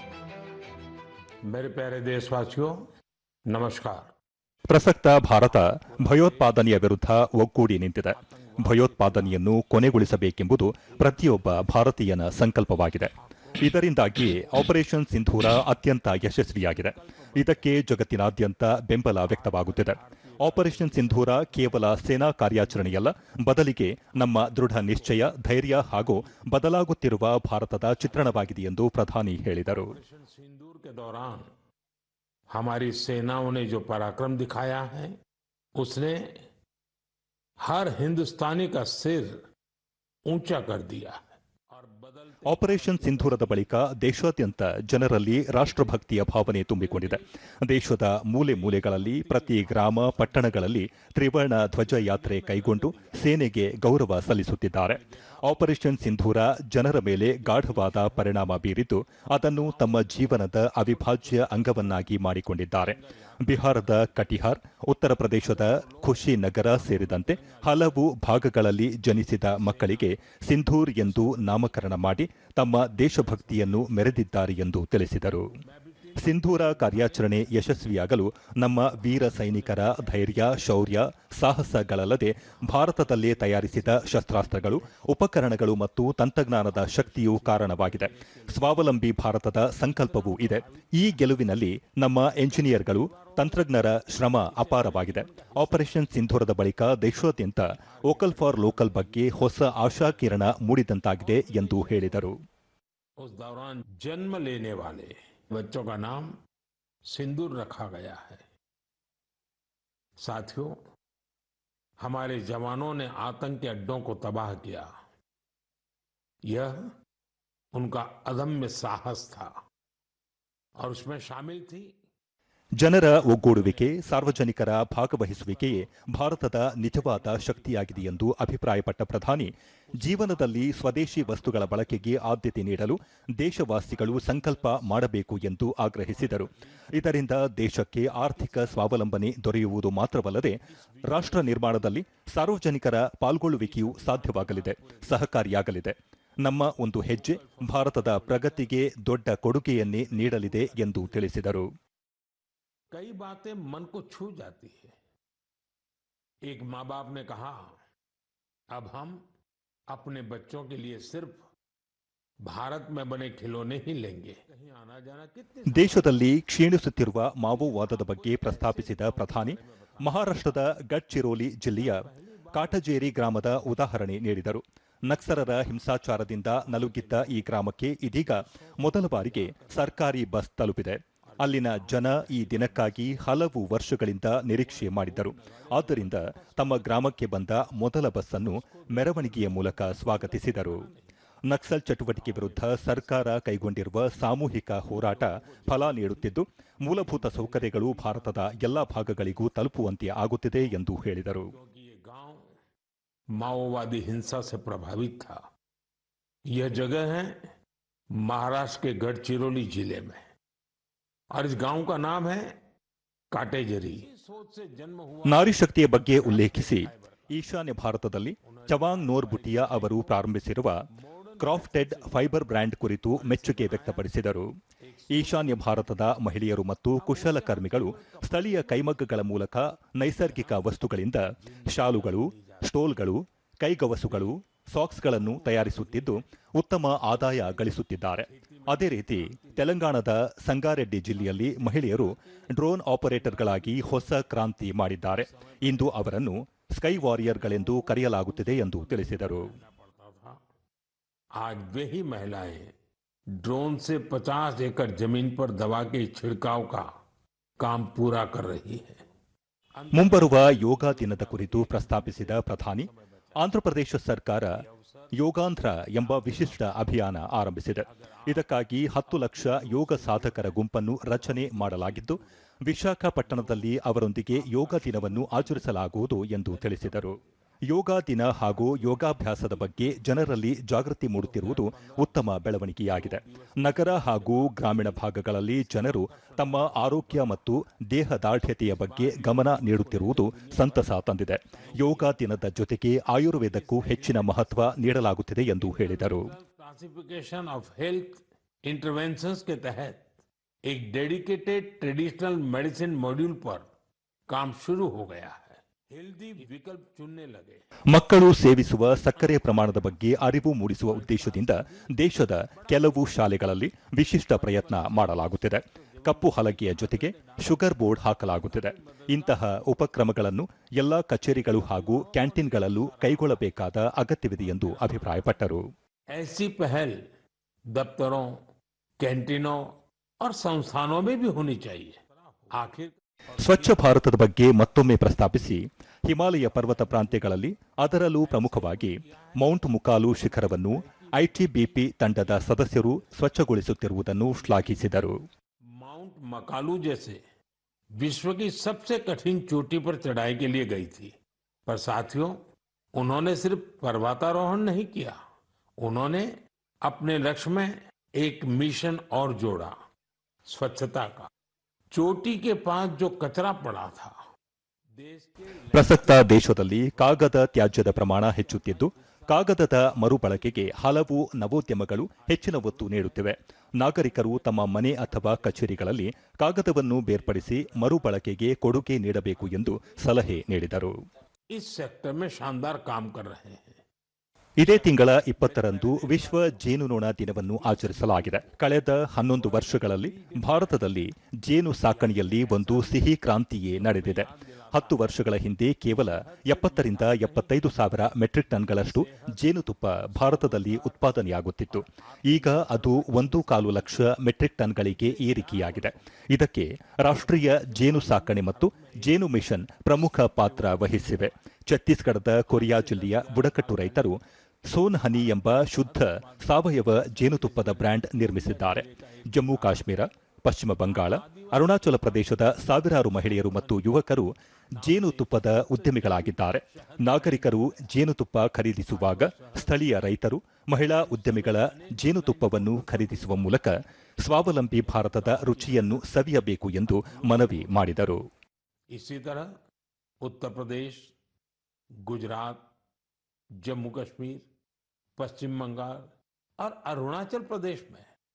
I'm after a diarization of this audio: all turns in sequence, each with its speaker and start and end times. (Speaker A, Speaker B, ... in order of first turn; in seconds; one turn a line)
Speaker A: 1.5-2.8
Speaker A: 3.5-4.1
Speaker B: 4.7-29.9
Speaker A: 5.4-6.7
Speaker A: 8.1-9.4
Speaker A: 10.9-11.7
Speaker A: 13.2-14.7
Speaker A: 16.3-17.8
Speaker A: 19.2-23.1
Speaker A: 24.2-26.5
Speaker A: 28.1-28.5
Speaker A: 29.8-31.5
Speaker A: 32.5-35.2
Speaker A: 35.8-36.4
Speaker A: 37.6-39.5
Speaker A: 40.3-43.7
Speaker B: 42.5-75.5
Speaker A: 46.5-47.3
Speaker A: 48.4-50.8
Speaker A: 51.6-53.4
Speaker A: 55.0-55.8
Speaker A: 56.9-58.5
Speaker A: 59.5-62.3
Speaker A: 62.8-64.4
Speaker A: 65.4-68.3
Speaker A: 69.3-70.4
Speaker A: 70.9-72.2
Speaker A: 72.9-74.2
Speaker A: 75.5-78.1
Speaker B: 76.2-102.4
Speaker A: 79.0-81.7
Speaker A: 82.6-85.1
Speaker A: 86.6-89.1
Speaker A: 89.7-91.5
Speaker A: 92.2-96.2
Speaker A: 97.3-100.6
Speaker A: 101.2-102.3
Speaker A: 103.2-106.4
Speaker A: 107.1-108.5
Speaker A: 110.2-110.8
Speaker A: 112.0-114.9
Speaker A: 116.5-116.8
Speaker A: 117.7-119.5
Speaker A: 120.8-122.0
Speaker B: 122.8-151.7
Speaker A: 123.1-124.2
Speaker A: 125.2-128.4
Speaker A: 129.9-132.8
Speaker A: 133.8-135.1
Speaker A: 136.1-137.1
Speaker A: 138.0-139.1
Speaker A: 140.7-142.3
Speaker A: 143.5-145.4
Speaker A: 146.8-148.8
Speaker A: 149.8-151.3
Speaker A: 152.9-155.0
Speaker A: 156.4-157.8
Speaker A: 158.7-159.2
Speaker A: 159.9-161.5
Speaker A: 162.4-166.3
Speaker B: 165.7-190.8
Speaker A: 167.3-170.7
Speaker A: 171.8-173.8
Speaker A: 175.2-175.7
Speaker A: 176.5-177.6
Speaker A: 178.2-180.1
Speaker A: 181.3-183.7
Speaker A: 184.3-187.8
Speaker A: 188.3-191.1
Speaker B: 191.5-201.5
Speaker A: 192.1-193.4
Speaker A: 194.9-199.5
Speaker A: 201.5-202.5
Speaker A: 203.3-205.4
Speaker A: 206.5-207.4
Speaker A: 208.2-210.3
Speaker A: 211.3-212.6
Speaker A: 213.3-217.4
Speaker B: 215.3-220.7
Speaker A: 218.4-220.3
Speaker A: 220.9-224.1
Speaker B: 221.4-224.5
Speaker A: 224.8-226.0
Speaker B: 225.1-249.5
Speaker A: 227.0-229.1
Speaker A: 230.2-230.8
Speaker A: 231.4-232.9
Speaker A: 234.0-234.3
Speaker A: 235.0-236.2
Speaker A: 237.0-239.9
Speaker A: 241.1-244.3
Speaker A: 245.1-246.2
Speaker A: 246.9-250.4
Speaker A: 251.3-252.7
Speaker A: 253.4-256.9
Speaker A: 257.6-259.1
Speaker A: 259.8-263.5
Speaker B: 259.9-264.5
Speaker A: 264.5-265.2
Speaker B: 265.2-277.2
Speaker A: 265.9-267.0
Speaker A: 267.7-272.4
Speaker A: 273.2-275.8
Speaker A: 276.4-277.2
Speaker B: 277.7-296.3
Speaker A: 278.5-280.2
Speaker A: 281.1-287.5
Speaker A: 288.6-290.9
Speaker A: 291.5-292.3
Speaker A: 293.5-294.9
Speaker A: 295.6-300.1
Speaker A: 300.6-303.7
Speaker A: 304.3-307.7
Speaker B: 307.9-325.6
Speaker A: 309.1-310.1
Speaker A: 310.9-313.4
Speaker A: 314.2-319.9
Speaker A: 321.4-323.6
Speaker A: 324.4-325.3
Speaker A: 326.1-327.0
Speaker A: 327.7-328.4
Speaker A: 329.0-334.0
Speaker B: 333.4-345.1
Speaker A: 336.3-337.3
Speaker A: 338.2-343.1
Speaker A: 344.3-344.9
Speaker A: 345.7-347.2
Speaker A: 348.0-352.4
Speaker A: 352.9-355.2
Speaker A: 355.8-356.3
Speaker A: 356.9-359.7
Speaker A: 360.5-361.3
Speaker A: 361.9-364.1
Speaker A: 365.0-370.9
Speaker B: 365.7-380.9
Speaker A: 372.1-373.3
Speaker A: 374.0-376.0
Speaker A: 377.0-378.4
Speaker A: 379.3-380.5
Speaker A: 381.5-383.8
Speaker B: 384.6-414.2
Speaker A: 384.7-386.8
Speaker A: 387.4-388.7
Speaker A: 389.3-391.1
Speaker A: 391.8-393.2
Speaker A: 393.7-404.2
Speaker A: 404.8-406.1
Speaker A: 407.1-409.3
Speaker A: 409.9-411.4
Speaker A: 412.5-414.2
Speaker B: 414.7-438.2
Speaker A: 415.0-419.9
Speaker A: 420.8-423.9
Speaker A: 424.8-427.9
Speaker A: 428.9-430.1
Speaker A: 430.9-433.7
Speaker A: 434.8-436.2
Speaker A: 436.8-437.9
Speaker A: 438.9-439.5
Speaker A: 440.2-441.1
Speaker A: 442.0-442.7
Speaker A: 443.6-444.5
Speaker A: 445.2-448.1